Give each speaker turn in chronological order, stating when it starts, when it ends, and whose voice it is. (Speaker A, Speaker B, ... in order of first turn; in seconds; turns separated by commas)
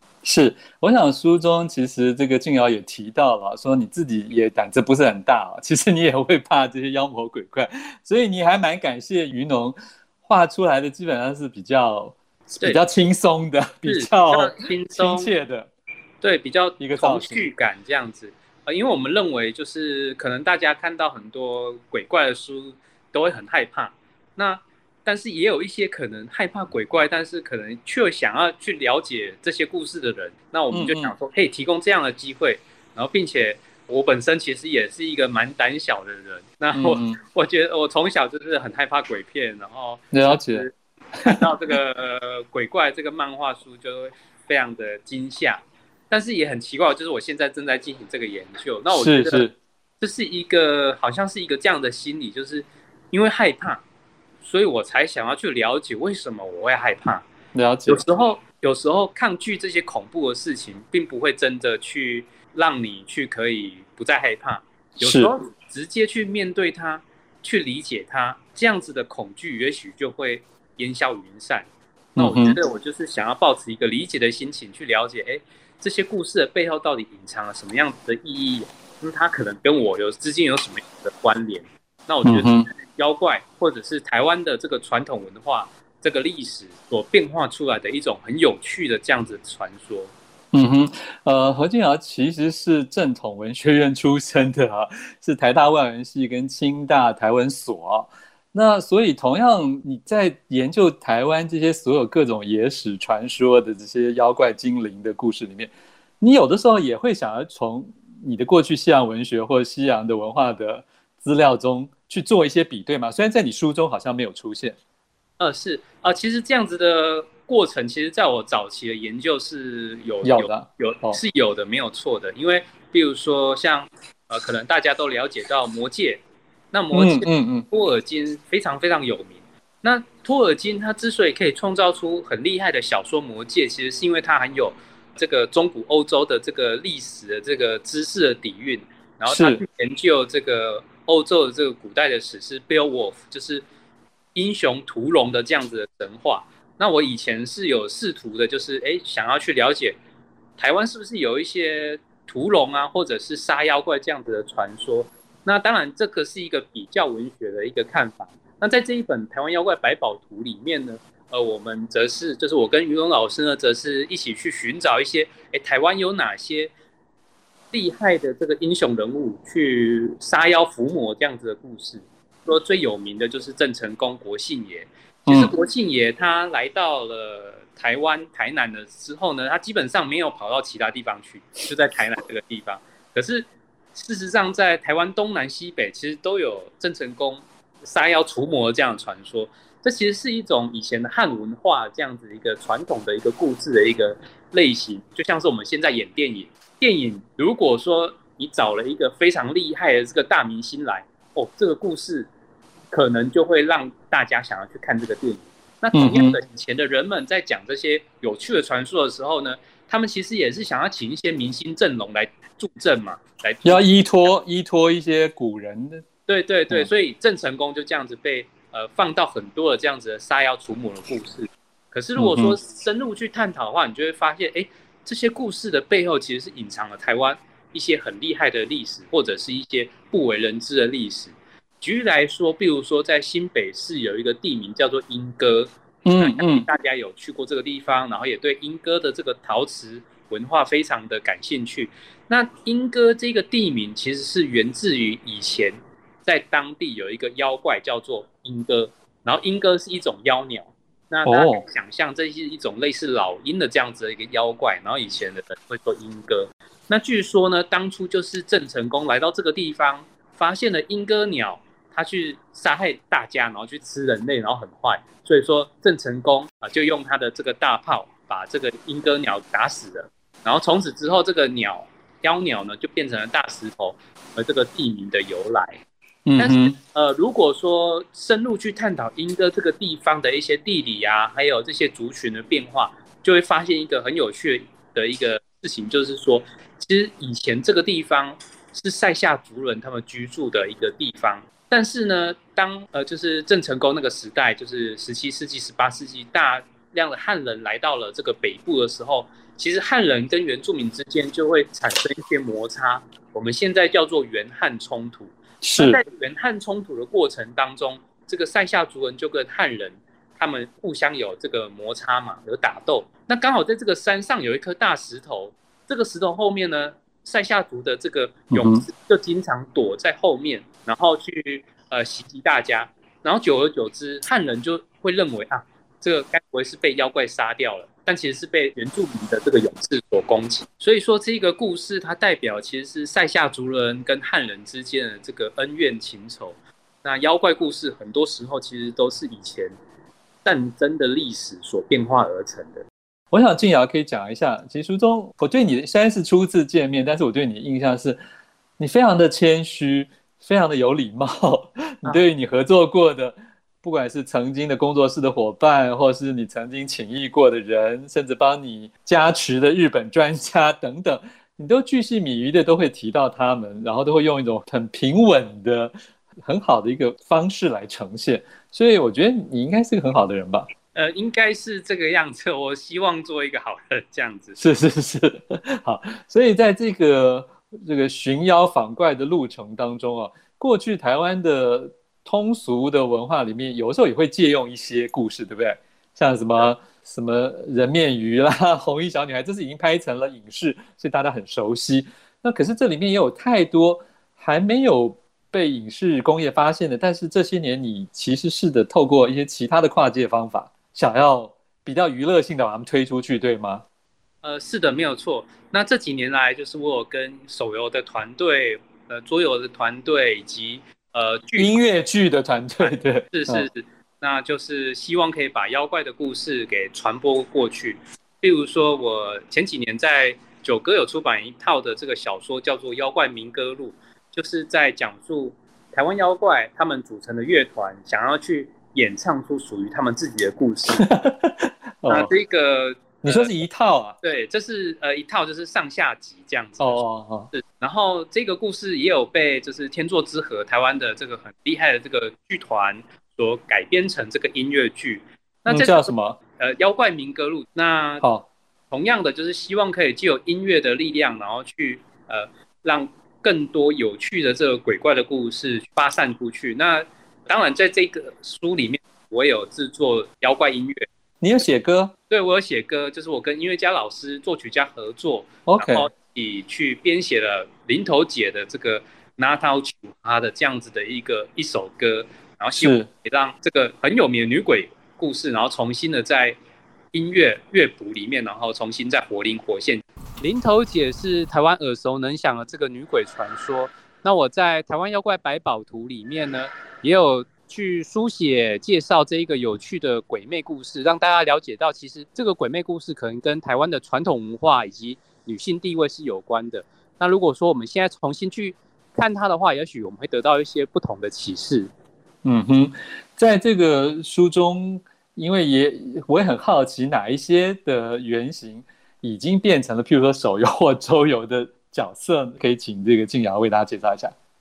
Speaker A: 0.2-15.7, Speaker B: 12.5-12.8, Speaker B: 13.8-15.3, Speaker B: 16.2-40.7, Speaker A: 16.8-17.4, Speaker A: 30.7-31.1, Speaker A: 36.7-37.2, Speaker A: 40.1-41.7, Speaker B: 41.3-49.5, Speaker A: 48.9-49.5, Speaker B: 50.0-53.8, Speaker B: 54.4-57.2, Speaker A: 57.5-58.2, Speaker B: 57.9-90.1, Speaker A: 65.0-65.3, Speaker A: 72.2-72.6, Speaker A: 82.2-82.7, Speaker A: 90.5-114.8, Speaker B: 115.4-143.7, Speaker A: 120.2-121.2, Speaker A: 126.9-127.6, Speaker A: 139.2-139.6, Speaker B: 144.3-150.0, Speaker B: 150.6-166.7, Speaker B: 167.7-202.3, Speaker A: 175.3-175.5, Speaker B: 202.9-213.9, Speaker A: 205.9-206.4, Speaker A: 213.6-216.0, Speaker B: 216.3-275.8, Speaker A: 222.2-222.6, Speaker A: 236.0-236.7, Speaker A: 251.2-251.6, Speaker A: 276.2-276.7, Speaker B: 276.4-339.7, Speaker A: 305.6-306.0, Speaker A: 318.5-318.9, Speaker B: 340.4-342.8, Speaker A: 343.3-348.2, Speaker A: 348.8-365.9, Speaker A: 366.4-370.6, Speaker B: 370.9-374.6, Speaker A: 374.6-403.8, Speaker B: 404.4-411.8, Speaker A: 411.5-413.7, Speaker B: 412.8-431.1, Speaker A: 431.0-432.3, Speaker B: 432.1-433.5, Speaker A: 433.2-434.1, Speaker B: 434.2-448.2, Speaker A: 436.8-437.5, Speaker A: 445.7-446.4, Speaker A: 448.2-448.5, Speaker B: 448.9-461.0, Speaker A: 461.4-462.1, Speaker B: 462.3-476.6, Speaker A: 465.6-466.1, Speaker A: 472.7-473.1, Speaker B: 477.1-501.9, Speaker A: 502.4-514.3